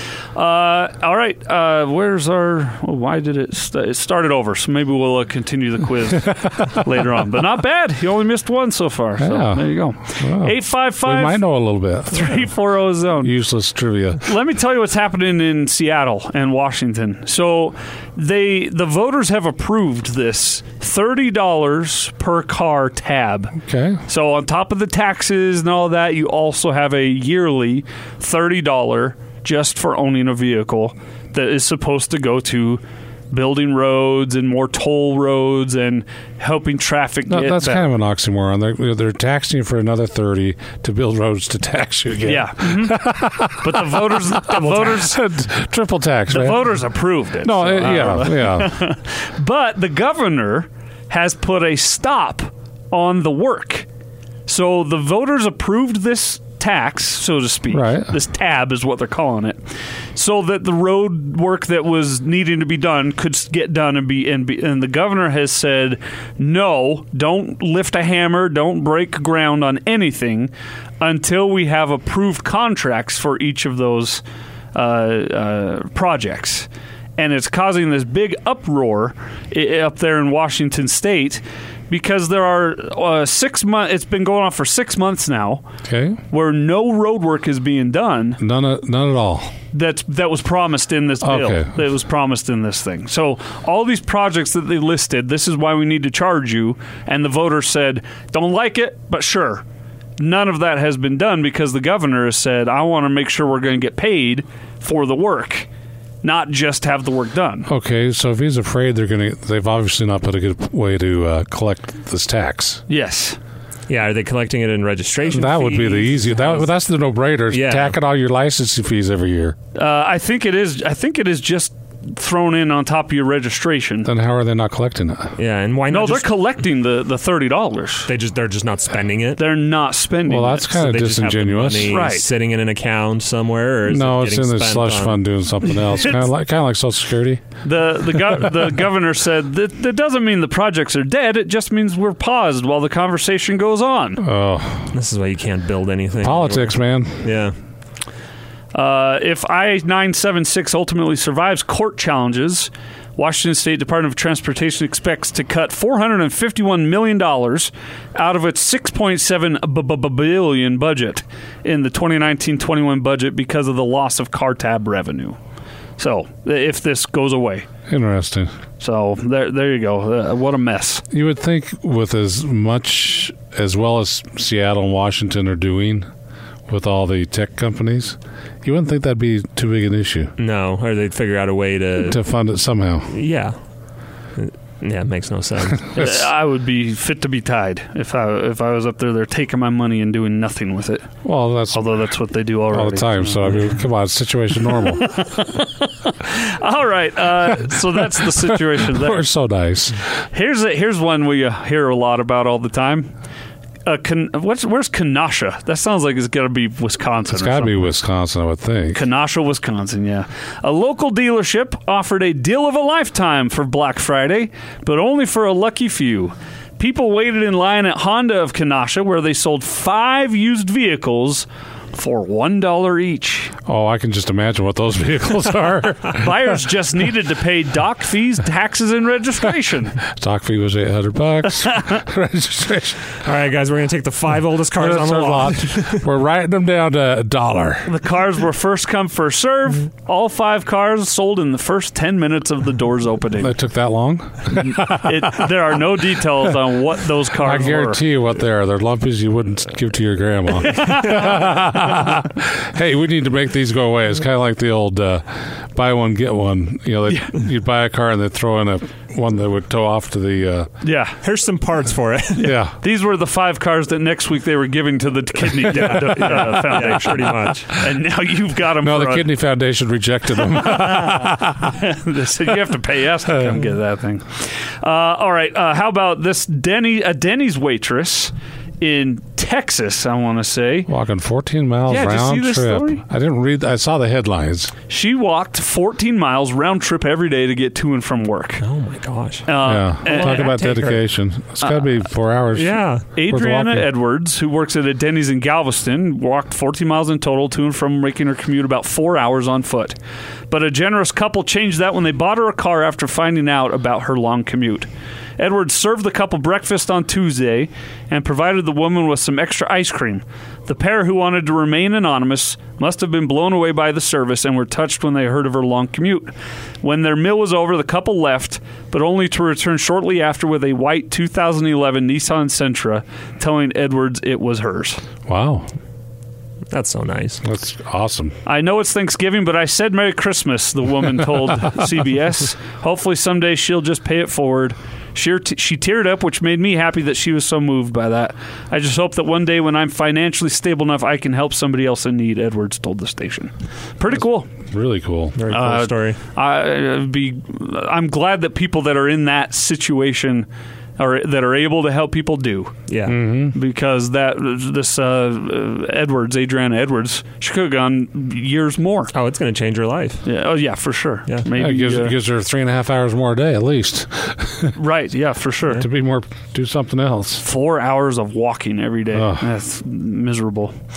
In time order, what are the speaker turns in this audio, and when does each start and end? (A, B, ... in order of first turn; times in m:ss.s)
0:00.3-0:11.4 A
0:09.2-0:12.5 B
0:12.1-0:13.3 A
0:13.2-0:14.3 B
0:14.2-0:37.8 A
0:23.6-0:24.0 B
0:37.3-0:46.8 B
0:42.2-0:43.0 A
0:43.6-0:45.2 A
0:46.3-0:53.9 A
0:47.4-0:48.7 B
0:54.5-0:59.6 A
0:57.7-0:58.2 B
1:00.1-1:14.2 A
1:14.7-1:25.6 A
1:25.8-1:26.2 B
1:26.3-1:28.4 A
1:28.4-1:29.5 B
1:29.7-1:39.6 A
1:31.2-1:31.8 B
1:40.2-1:45.7 A
1:46.2-1:47.7 A
1:47.6-1:52.8 B
1:52.9-1:53.4 A
1:53.9-1:56.6 C
1:55.3-1:59.6 B
1:57.5-1:57.9 C
1:59.7-2:04.1 A
2:04.0-2:05.4 B
2:05.4-2:06.3 C
2:05.9-2:08.1 A
2:08.1-2:09.4 C
2:09.4-2:10.7 A
2:10.3-2:12.0 B
2:10.7-2:15.2 C
2:11.9-2:12.2 A
2:13.9-2:17.4 B
2:17.6-2:24.2 A
2:24.2-2:24.9 B
2:24.9-2:27.5 C
2:26.2-2:27.2 B
2:28.7-2:45.4 A
2:46.0-2:47.7 A
2:47.9-2:48.5 B
2:48.8-2:51.0 A
2:51.1-2:56.1 B
2:56.7-3:00.3 B
3:00.4-3:02.2 C
3:02.0-3:03.1 B
3:03.1-3:03.5 C
3:04.4-3:05.9 C
3:05.9-3:11.1 A
3:06.0-3:06.2 B
3:11.2-3:12.1 B
3:11.7-3:13.5 A
3:12.7-3:15.0 B
3:15.0-3:19.2 A
3:18.2-3:20.0 B
3:20.3-3:23.1 A
3:23.8-3:27.8 A
3:27.3-3:29.0 B
3:28.9-3:43.5 A
3:43.7-3:46.6 B
3:46.1-3:50.0 A
3:50.1-3:53.1 B
3:53.2-3:56.0 C
3:54.8-3:57.9 B
3:57.9-4:03.5 A
4:03.4-4:05.5 B
4:04.6-4:08.0 A
4:07.4-4:20.7 B
4:10.7-4:11.2 A
4:20.8-4:21.2 A
4:21.2-4:22.5 C
4:22.4-4:22.7 B
4:22.4-4:29.3 A
4:25.7-4:27.7 C
4:28.8-4:31.8 B
4:31.8-4:40.9 A
4:40.9-4:44.7 B
4:41.9-4:43.0 A
4:44.9-4:48.6 A
4:48.6-4:49.5 C
4:49.4-4:50.6 A
4:49.6-4:53.9 B
4:50.0-4:51.0 C
4:51.6-4:51.8 A
4:52.5-4:53.0 C
4:53.2-5:00.0 A
5:00.5-5:25.0 A
5:25.3-5:25.7 B
5:26.7-5:27.4 C
5:27.4-5:28.4 B
5:28.4-5:44.5 A
5:44.6-5:45.4 B
5:45.4-5:46.2 C
5:45.5-5:50.5 A
5:51.0-5:52.8 A
5:52.9-5:53.2 C
5:53.0-5:53.6 B
5:53.5-5:59.1 A
5:59.1-6:00.2 C
6:00.2-6:02.2 A
6:01.5-6:04.7 B
6:04.8-6:05.8 A
6:05.7-6:07.4 B
6:07.4-6:10.8 A
6:09.1-6:09.5 B